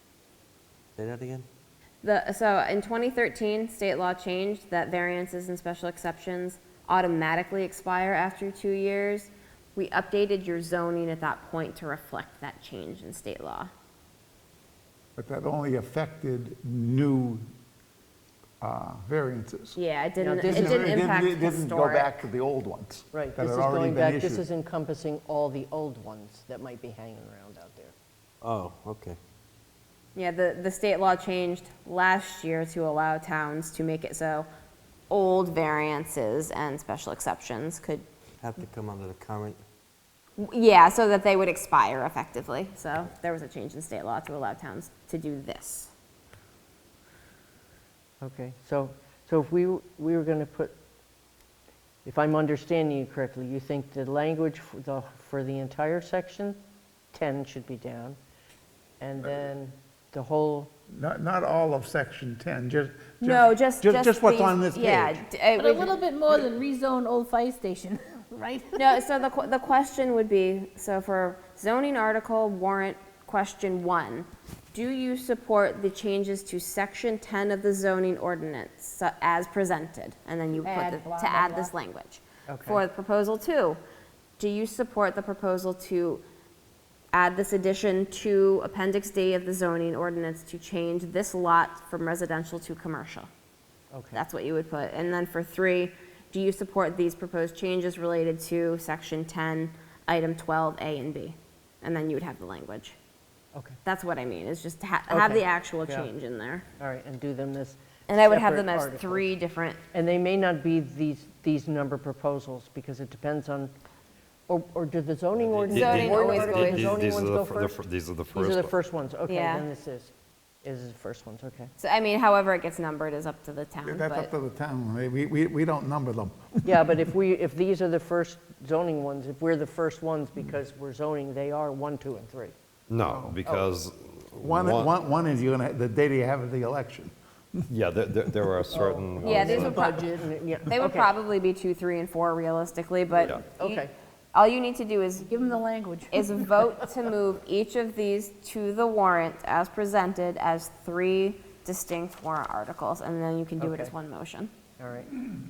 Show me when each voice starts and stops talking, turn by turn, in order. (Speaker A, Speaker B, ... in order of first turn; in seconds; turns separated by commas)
Speaker A: 1.0-1.4, Speaker B: 2.0-13.7, Speaker C: 15.2-17.4, Speaker C: 18.6-19.8, Speaker B: 19.7-22.2, Speaker D: 20.2-21.1, Speaker C: 20.4-24.4, Speaker D: 23.1-27.9, Speaker A: 28.4-29.2, Speaker B: 30.1-34.5, Speaker B: 35.1-38.0, Speaker A: 38.4-39.6, Speaker B: 40.4-45.9, Speaker D: 48.2-50.8, Speaker D: 52.0-58.2, Speaker D: 59.0-60.7, Speaker C: 60.9-65.2, Speaker B: 63.2-66.0, Speaker E: 65.5-69.0, Speaker B: 68.7-83.8, Speaker E: 80.6-81.7, Speaker D: 82.5-82.8, Speaker B: 84.4-86.2, Speaker B: 87.1-93.3, Speaker D: 93.9-94.2, Speaker B: 94.1-103.0, Speaker B: 103.8-106.6, Speaker D: 105.1-106.1, Speaker D: 106.8-109.3, Speaker B: 108.1-109.8, Speaker D: 109.9-113.7, Speaker D: 114.5-117.8, Speaker F: 115.4-118.7, Speaker B: 115.7-116.9, Speaker D: 118.3-120.1, Speaker B: 119.3-119.7, Speaker D: 120.6-121.7, Speaker B: 121.8-124.3, Speaker C: 123.8-127.1, Speaker D: 126.7-132.5, Speaker F: 132.9-134.9, Speaker C: 133.1-133.4, Speaker C: 134.4-137.6, Speaker F: 137.7-139.9, Speaker D: 138.7-141.1, Speaker B: 139.2-140.1, Speaker B: 140.7-145.3, Speaker D: 143.5-143.9, Speaker E: 145.3-146.4, Speaker B: 146.1-154.5, Speaker D: 153.6-153.9, Speaker D: 154.8-155.2